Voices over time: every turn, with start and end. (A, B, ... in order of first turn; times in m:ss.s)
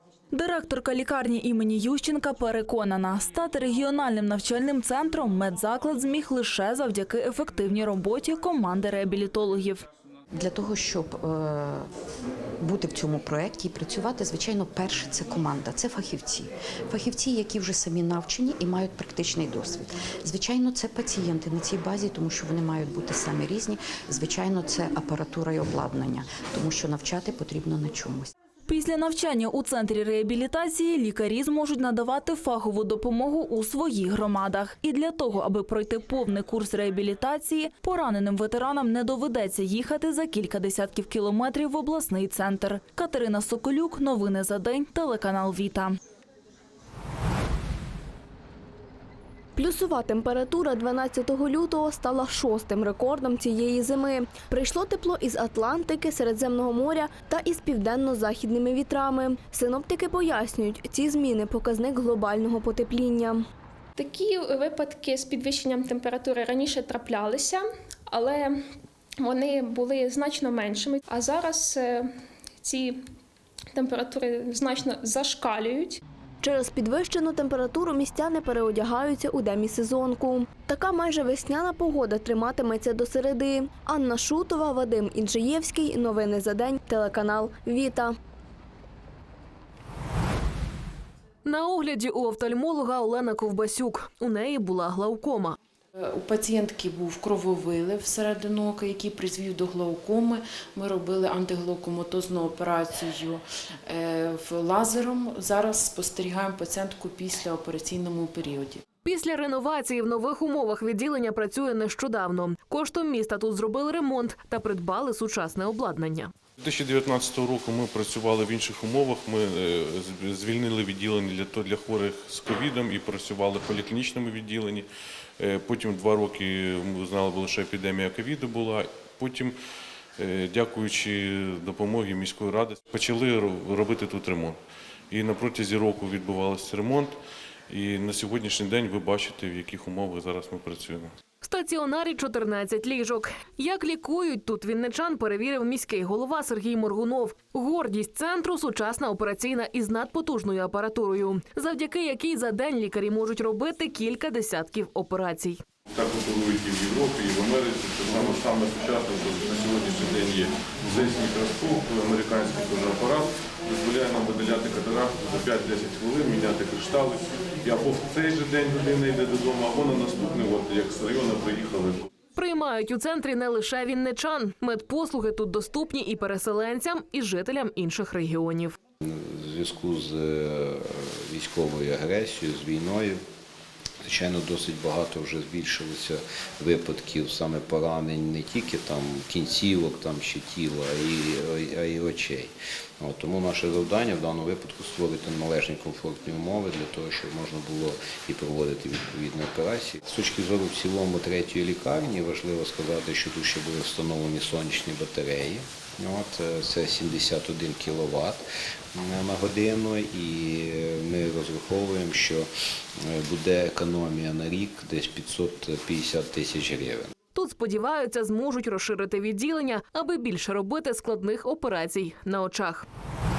0:00.3-0:09.8 A
0:10.3-0:11.9 B
0:12.6-0:28.3 B
0:28.7-0:46.0 A
0:49.6-1:03.4 C
1:04.0-1:08.6 D
1:09.2-1:12.1 D
1:12.6-1:13.0 D
1:13.7-1:16.0 D
1:16.4-1:28.1 C
1:31.4-1:35.6 E
1:36.0-1:48.8 F
1:49.0-1:56.3 E
1:56.6-2:04.9 G
2:05.4-2:09.5 G
2:10.2-2:14.6 G
2:15.1-2:17.2 G
2:17.7-2:21.1 G
2:21.4-2:35.6 E
2:35.9-2:52.1 G
2:52.4-2:58.8 E
2:59.0-3:03.2 H
3:04.0-3:37.1 H
3:37.4-3:42.8 E